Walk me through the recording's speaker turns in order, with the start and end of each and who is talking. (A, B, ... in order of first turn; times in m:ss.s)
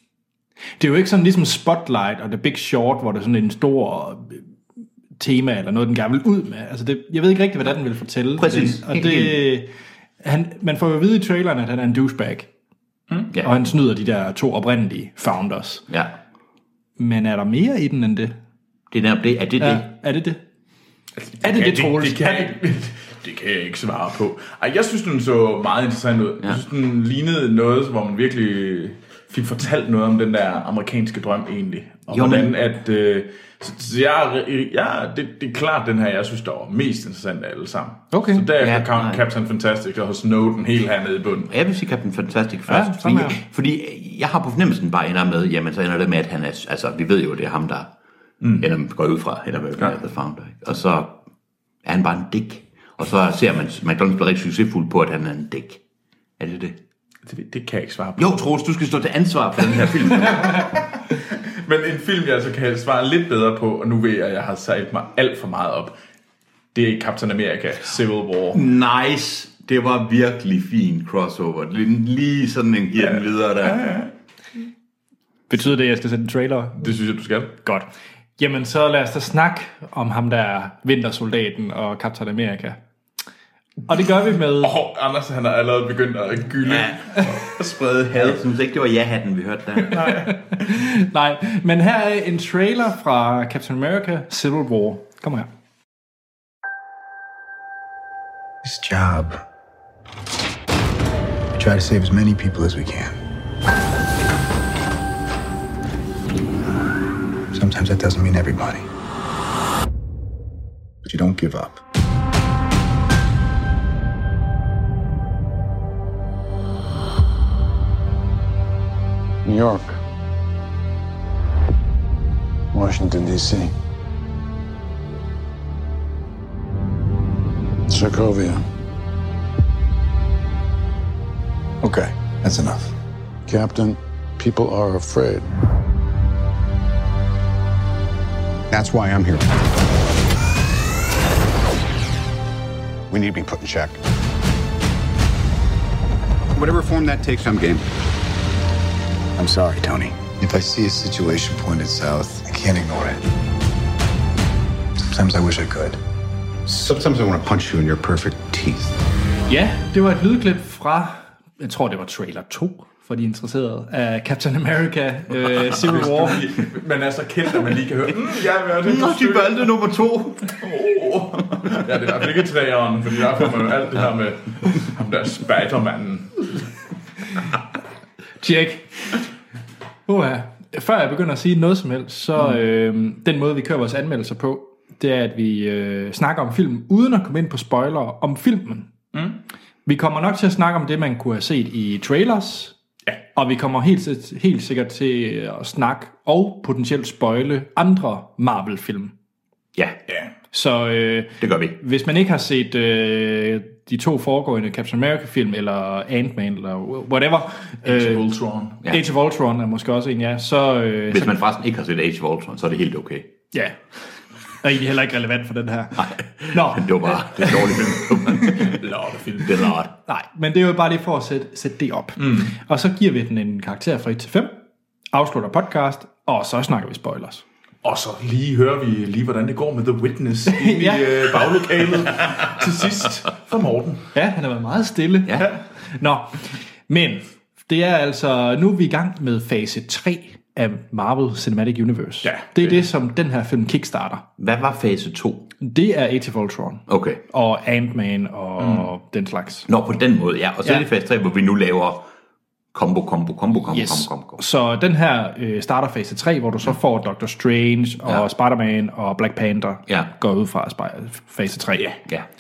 0:00.8-0:04.4 A
0:05.2-0:09.7 A
0:08.4-0:09.4 B
0:10.2-0:12.5 A
0:13.4-0:15.8 A
0:15.9-0:16.2 B
0:17.0-0:18.4 A
0:18.9-0:19.9 B
0:19.6-0:20.4 A
0:21.2-0:41.5 C
0:21.4-0:22.5 A
0:32.1-0:32.5 B
0:38.1-0:38.5 A
0:38.6-0:39.2 B
0:41.5-0:47.9 B
0:42.7-0:43.4 A
0:48.4-0:48.7 C
0:48.6-0:51.2 B
0:51.8-0:55.8 B
0:56.4-0:56.8 B
0:57.2-0:58.4 C
0:58.2-1:00.7 B
1:01.5-1:06.0 C
1:06.7-1:08.6 C
1:08.5-1:13.9 B
1:13.0-1:14.1 C
1:15.5-1:16.9 A
1:16.8-1:17.5 C
1:17.6-1:17.9 A
1:18.4-1:22.8 A
1:23.9-1:24.7 A
1:24.6-1:28.4 C
1:26.6-1:27.3 B
1:28.1-1:30.2 B
1:29.9-1:35.5 A
1:38.6-1:39.4 D
1:41.5-1:43.2 D
1:47.5-1:48.9 D
1:51.0-1:51.8 D
1:59.4-2:00.0 E
2:02.7-2:03.7 E
2:07.9-2:08.6 E
2:11.8-2:13.0 D
2:13.5-2:15.5 E
2:18.7-2:19.7 D
2:23.1-2:24.0 D
2:26.5-2:27.9 D
2:29.4-2:33.2 D
2:35.0-2:36.0 D
2:36.6-2:39.0 D
2:39.5-2:46.4 A
2:45.6-2:49.7 C
2:48.8-2:50.6 B
2:50.5-2:56.5 C
2:58.4-2:58.9 A
3:00.1-3:08.9 A
3:09.1-3:09.4 C
3:09.9-3:12.8 A
3:13.4-3:19.1 A
3:20.5-3:28.2 A
3:21.4-3:21.8 B
3:27.8-3:28.8 C
3:28.9-3:31.4 A
3:31.1-3:33.3 B
3:33.5-3:33.8 A
3:34.6-3:38.4 A
3:36.0-3:38.9 B
3:38.6-3:39.6 C
3:39.4-3:39.9 B
3:40.1-3:44.6 A
3:42.2-3:42.5 C
3:45.1-3:47.4 A
3:47.8-3:54.1 C
3:50.5-3:51.4 A
3:54.1-4:04.2 A
4:02.2-4:02.8 C
4:04.4-4:05.5 B
4:05.6-4:09.7 A
4:06.9-4:07.2 B
4:09.7-4:12.0 B
4:12.7-4:14.4 B
4:13.7-4:22.0 A